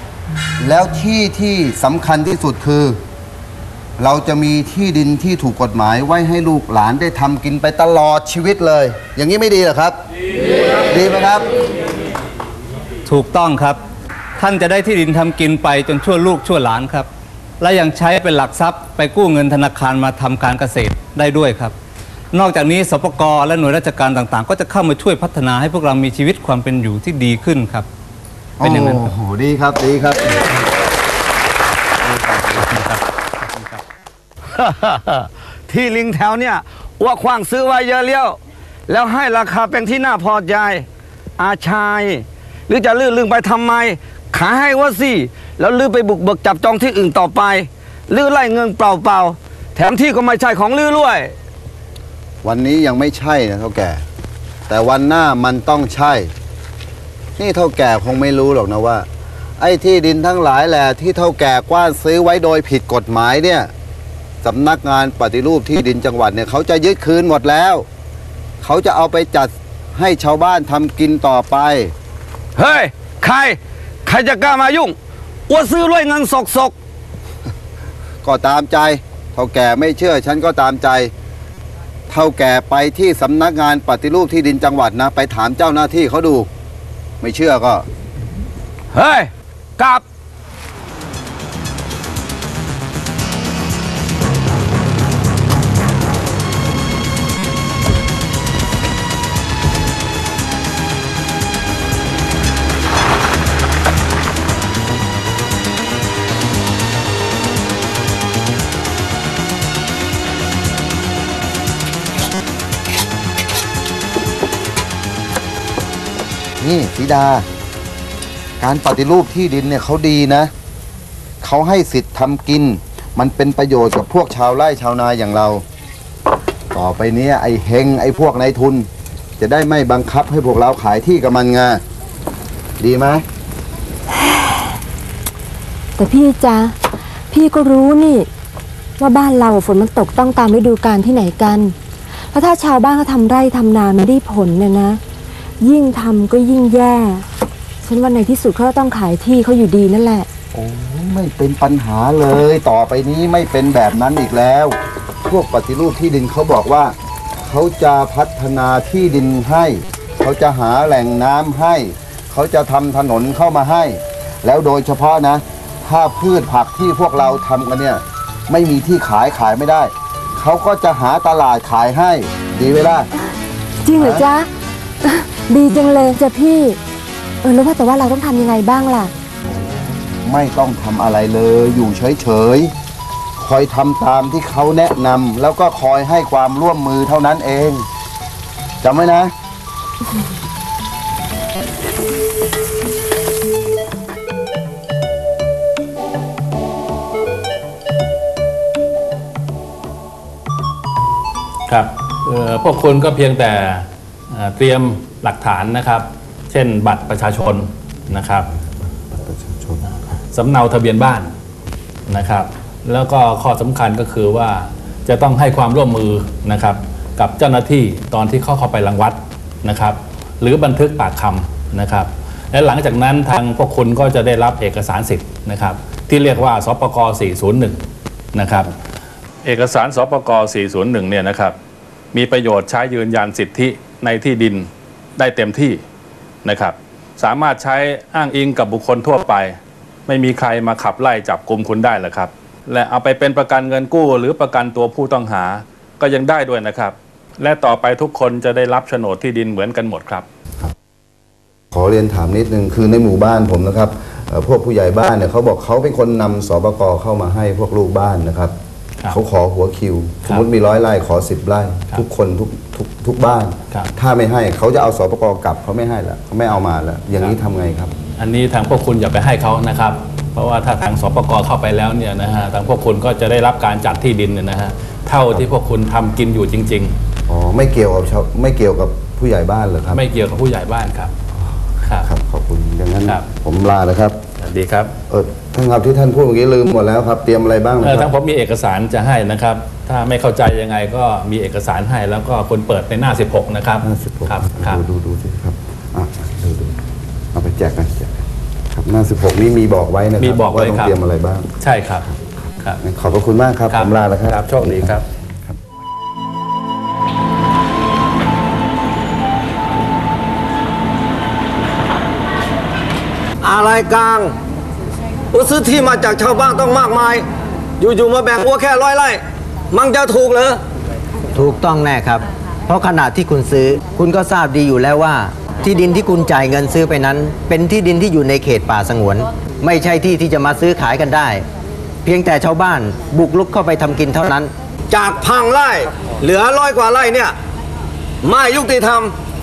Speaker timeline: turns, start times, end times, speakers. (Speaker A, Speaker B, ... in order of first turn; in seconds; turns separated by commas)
Speaker A: 0.6-3.0, Speaker A: 4.0-10.0, Speaker A: 10.9-11.5, Speaker B: 13.1-13.8, Speaker B: 14.4-17.1, Speaker B: 17.6-21.8, Speaker B: 22.3-27.9, Speaker A: 28.6-30.5, Speaker B: 28.6-29.1, Speaker C: 32.0-33.8, Speaker D: 34.6-40.9, Speaker D: 41.4-51.3, Speaker A: 52.4-54.0, Speaker A: 54.7-56.3, Speaker A: 57.4-59.1, Speaker A: 59.6-63.7, Speaker A: 64.4-67.9, Speaker A: 68.6-71.9, Speaker D: 72.6-75.0, Speaker D: 75.5-76.7, Speaker A: 78.2-81.1, Speaker A: 82.1-86.5, Speaker A: 87.2-87.9, Speaker D: 88.9-90.0, Speaker A: 116.6-117.5, Speaker A: 118.6-120.5, Speaker A: 121.4-125.6, Speaker A: 126.7-128.9, Speaker A: 129.4-131.8, Speaker A: 132.8-133.2, Speaker E: 134.2-134.5, Speaker E: 136.0-136.8, Speaker E: 137.3-138.3, Speaker E: 139.0-141.8, Speaker E: 142.3-145.0, Speaker E: 145.6-147.2, Speaker E: 147.8-150.3, Speaker A: 150.5-173.1, Speaker E: 173.8-174.5, Speaker A: 174.0-174.3, Speaker E: 175.0-176.8, Speaker E: 177.4-179.1, Speaker A: 179.5-182.7, Speaker A: 183.4-187.9, Speaker A: 188.8-189.3, Speaker C: 201.7-208.5, Speaker A: 208.5-210.1, Speaker C: 210.3-211.3, Speaker C: 212.1-227.8, Speaker C: 228.3-228.7, Speaker C: 229.4-231.6, Speaker C: 232.1-235.8, Speaker C: 236.4-250.3, Speaker A: 251.7-258.5, Speaker A: 259.1-267.9, Speaker C: 268.2-276.9, Speaker A: 277.3-280.0, Speaker C: 279.9-281.1, Speaker A: 281.4-284.2, Speaker C: 281.8-282.1, Speaker C: 284.4-284.9, Speaker A: 285.1-288.1, Speaker C: 287.8-294.8, Speaker A: 293.8-296.8, Speaker A: 297.3-301.5, Speaker C: 300.2-300.9, Speaker C: 301.6-302.1, Speaker A: 302.8-305.6, Speaker C: 303.7-305.0, Speaker D: 313.4-314.3, Speaker D: 315.3-317.2, Speaker D: 317.8-320.6, Speaker F: 321.3-331.4, Speaker F: 332.0-334.5, Speaker D: 334.9-337.3, Speaker D: 338.2-339.1